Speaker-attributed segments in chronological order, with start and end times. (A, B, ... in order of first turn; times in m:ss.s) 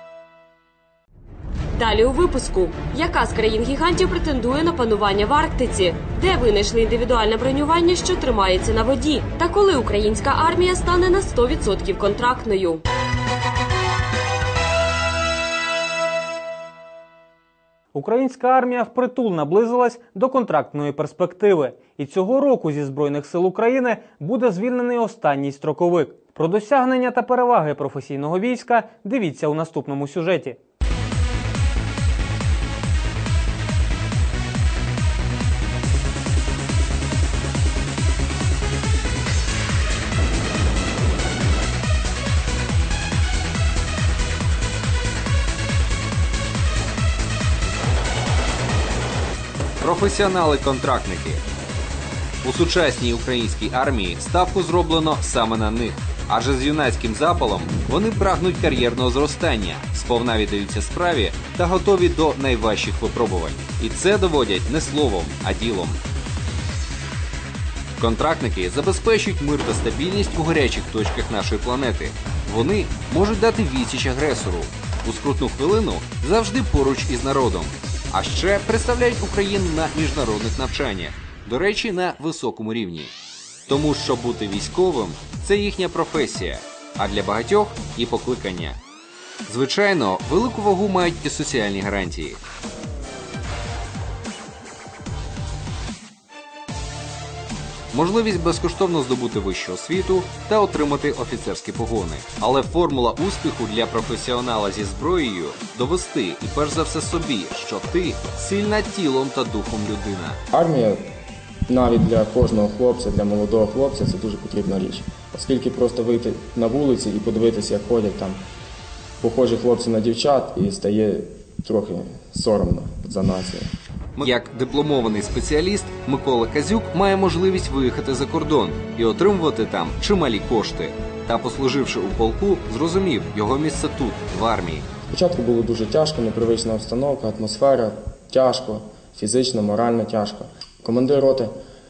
0:01.7-0:12.8 A
0:17.9-0:30.6 B
0:49.8-0:51.4 C
0:52.4-1:06.0 C
1:08.0-1:23.1 C
1:23.7-1:28.8 C
1:29.5-1:32.4 C
1:37.9-1:50.4 C
1:50.5-1:51.0 D
1:51.7-1:58.4 D
1:59.2-2:03.7 D
2:04.2-2:14.8 C
2:15.1-2:21.5 D